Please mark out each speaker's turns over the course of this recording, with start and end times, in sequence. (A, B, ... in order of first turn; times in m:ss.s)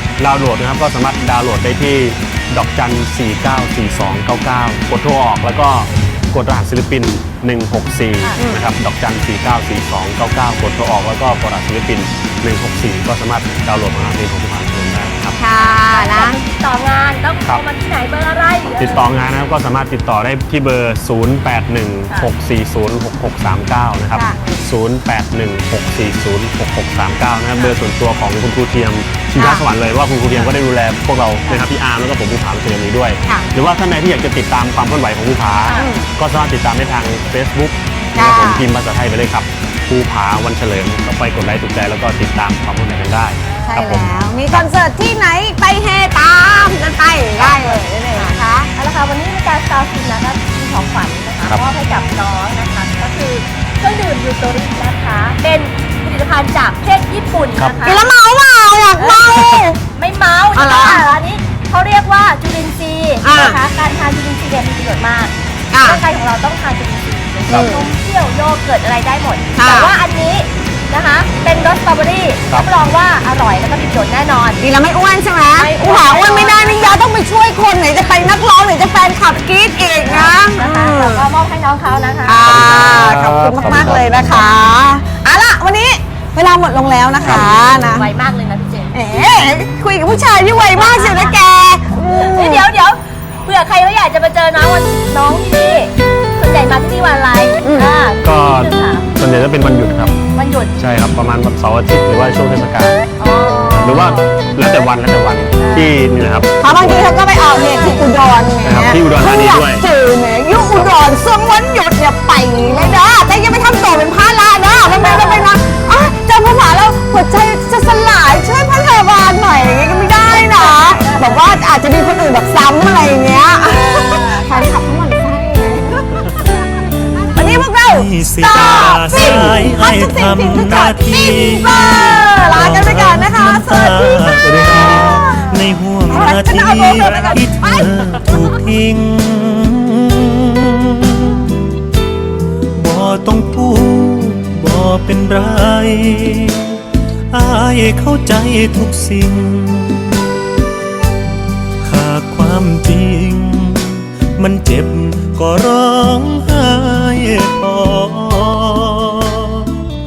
0:00.2-0:15.4 A
0:08.4-0:08.7 B
0:15.3-0:16.4 B
0:15.9-0:19.0 C
0:18.8-0:44.7 A
0:29.4-0:29.7 B
0:33.3-0:33.5 B
0:35.6-0:35.9 C
0:35.8-0:36.1 B
0:38.2-0:38.7 B
0:43.5-0:43.7 C
0:43.7-0:48.7 B
0:47.4-0:58.1 C
0:57.6-0:57.8 A
0:57.8-0:59.8 B
0:59.0-1:14.6 C
1:00.5-1:01.0 B
1:03.2-1:03.6 B
1:05.7-1:06.0 B
1:07.5-1:07.9 B
1:07.5-1:07.8 A
1:09.6-1:10.0 B
1:14.6-1:21.3 B
1:15.6-1:17.0 C
1:19.9-1:22.4 C
1:22.2-1:28.1 B
1:22.4-1:24.5 A
1:27.3-1:28.9 C
1:28.9-1:32.7 B
1:30.7-1:31.4 C
1:32.1-1:39.1 C
1:37.6-1:38.0 B
1:38.2-1:40.2 A
1:40.3-1:40.7 C
1:40.8-1:43.0 A
1:43.2-1:44.3 C
1:43.7-1:47.2 A
1:45.6-1:45.9 C
1:46.6-2:06.3 B
1:47.5-1:48.0 C
1:48.6-1:49.9 A
1:52.7-1:53.0 C
1:54.9-1:55.5 C
1:59.7-2:01.3 C
2:00.9-2:01.3 A
2:03.6-2:04.7 C
2:07.3-2:18.4 B
2:07.4-2:21.6 D
2:08.6-2:09.6 A
2:14.6-2:14.8 A
2:22.8-2:26.8 D
2:25.3-2:26.0 A
2:27.4-2:27.8 A
2:27.4-2:30.1 D
2:31.9-2:39.8 D